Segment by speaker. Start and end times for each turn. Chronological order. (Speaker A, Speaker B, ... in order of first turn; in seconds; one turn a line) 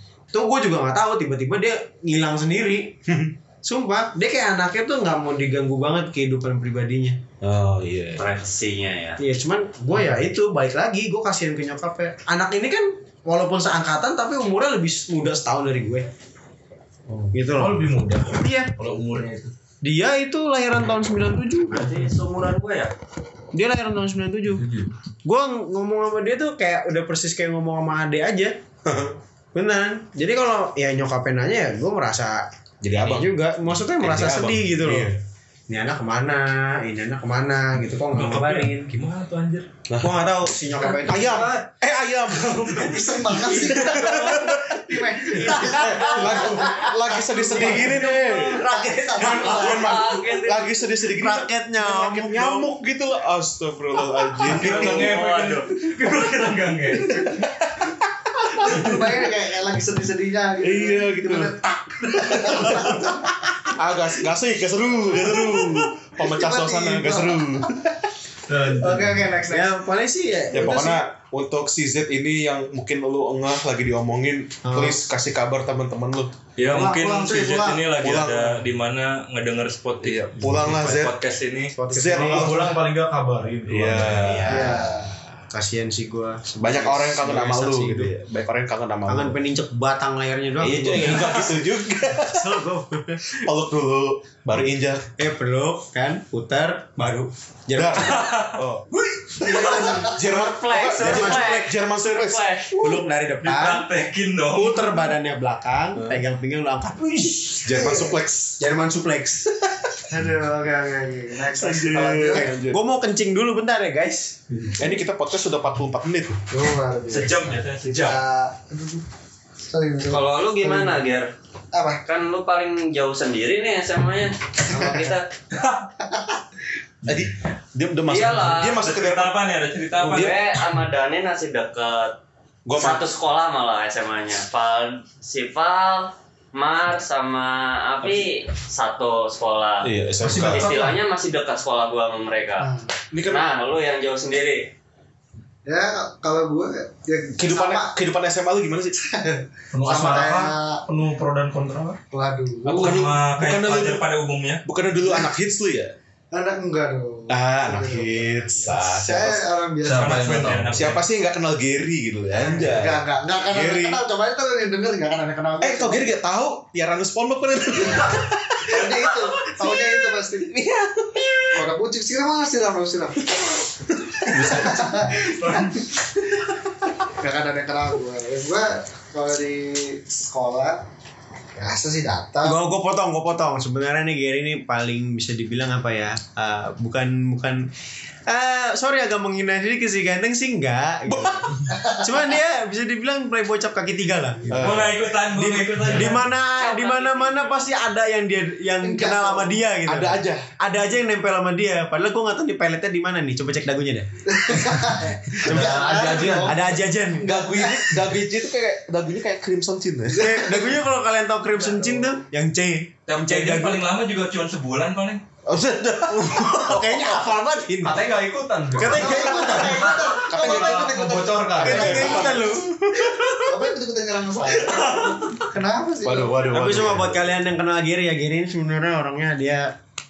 Speaker A: 0.3-3.0
Speaker B: 3.1-3.3
Speaker A: 3.6-7.2
Speaker B: 7.4-8.3
Speaker C: 8.2-9.2
Speaker A: 9.2-16.1
Speaker D: 17.1-19.5
Speaker A: 17.3-18.7
Speaker A: 19.8-21.9
Speaker C: 21.7-22.9
Speaker A: 23.5-24.7
Speaker D: 24.5-24.9
Speaker A: 25.2-28.6
Speaker B: 28.9-29.1
Speaker A: 29.5-35.1
Speaker B: 32.8-35.2
Speaker A: 35.7-38.9
Speaker E: 38.1-39.7
Speaker B: 39.9-44.6
Speaker A: 40.0-41.5
Speaker E: 42.4-42.8
Speaker F: 42.7-50.0
Speaker E: 43.3-44.0
Speaker B: 45.3-48.7
Speaker A: 45.7-46.7
Speaker C: 47.9-50.9
Speaker B: 49.2-55.2
Speaker A: 49.2-49.5
Speaker A: 51.1-52.7
Speaker E: 54.4-57.3
Speaker C: 54.5-55.7
Speaker B: 57.3-57.9
Speaker F: 58.6-63.3
Speaker B: 60.6-61.6
Speaker B: 62.2-63.0
Speaker A: 62.6-63.1
Speaker B: 63.7-68.1
Speaker A: 65.2-65.8
Speaker F: 65.3-67.7
Speaker D: 68.5-69.4
Speaker F: 68.6-69.7
Speaker A: 69.5-71.0
Speaker B: 70.5-76.3
Speaker A: 74.7-75.0
Speaker E: 76.6-81.8
Speaker F: 76.7-77.8
Speaker B: 78.0-78.7
Speaker B: 80.0-81.2
Speaker D: 80.4-80.7
Speaker A: 81.7-82.7
Speaker B: 81.9-82.8
Speaker D: 82.0-84.5
Speaker B: 83.7-84.9
Speaker A: 84.2-88.1
Speaker F: 84.5-85.1
Speaker B: 86.6-89.4
Speaker A: 89.1-93.4
Speaker B: 90.6-92.7
Speaker B: 93.3-95.1
Speaker A: 95.2-98.3
Speaker B: 97.8-98.9
Speaker E: 98.0-98.6
Speaker A: 99.0-100.4
Speaker F: 99.4-100.1
Speaker C: 99.5-103.0
Speaker B: 99.8-102.5
Speaker A: 100.9-101.9
Speaker A: 102.7-103.9
Speaker E: 103.4-105.0
Speaker A: 104.5-110.0
Speaker B: 106.0-106.2
Speaker B: 107.6-108.6
Speaker F: 110.1-112.5
Speaker B: 111.5-112.8
Speaker A: 112.2-114.4
Speaker D: 114.5-114.8
Speaker B: 114.8-116.4
Speaker F: 116.5-119.0
Speaker E: 117.1-118.2
Speaker F: 119.7-121.0
Speaker C: 120.0-121.3
Speaker F: 121.7-122.0
Speaker C: 122.0-125.3
Speaker F: 124.7-125.0
Speaker B: 127.0-129.4
Speaker C: 128.1-128.8
Speaker E: 128.6-130.4
Speaker B: 130.0-130.4
Speaker C: 130.0-132.2
Speaker B: 132.7-133.0
Speaker C: 132.7-142.7
Speaker B: 139.8-140.8
Speaker D: 140.2-141.0
Speaker F: 142.6-142.9
Speaker B: 143.1-143.6
Speaker C: 143.2-144.7
Speaker F: 145.7-147.9
Speaker B: 147.4-149.0
Speaker F: 149.0-150.8
Speaker D: 149.7-152.0
Speaker F: 152.1-153.0
Speaker B: 152.7-154.1
Speaker E: 152.7-154.6
Speaker B: 154.7-155.9
Speaker F: 156.3-160.6
Speaker B: 157.3-159.5
Speaker D: 159.8-160.9
Speaker E: 159.9-161.0
Speaker B: 160.7-164.0
Speaker F: 162.4-166.1
Speaker B: 165.6-169.0
Speaker F: 167.7-170.6
Speaker B: 170.5-171.4
Speaker F: 171.5-175.8
Speaker B: 174.2-174.9
Speaker F: 177.0-180.8
Speaker F: 181.6-182.6
Speaker A: 182.4-187.7
Speaker A: 188.3-194.9
Speaker B: 191.1-191.6
Speaker F: 191.7-192.1
Speaker B: 194.5-195.0
Speaker E: 194.6-196.3
Speaker A: 195.6-207.4
Speaker C: 196.5-197.7
Speaker F: 198.8-199.6
Speaker B: 199.8-200.5
Speaker F: 204.3-206.6
Speaker D: 205.4-206.7
Speaker B: 207.2-210.6
Speaker F: 207.6-207.9
Speaker A: 210.1-213.8
Speaker F: 210.3-210.6
Speaker E: 213.1-215.2
Speaker B: 215.5-217.3
Speaker A: 216.1-218.1
Speaker D: 217.8-222.2
Speaker A: 218.8-219.9
Speaker F: 218.8-222.5
Speaker B: 219.4-221.0
Speaker B: 221.6-223.1
Speaker A: 221.6-223.2
Speaker F: 223.4-226.5
Speaker E: 224.6-225.2
Speaker B: 226.0-227.3
Speaker A: 226.5-229.7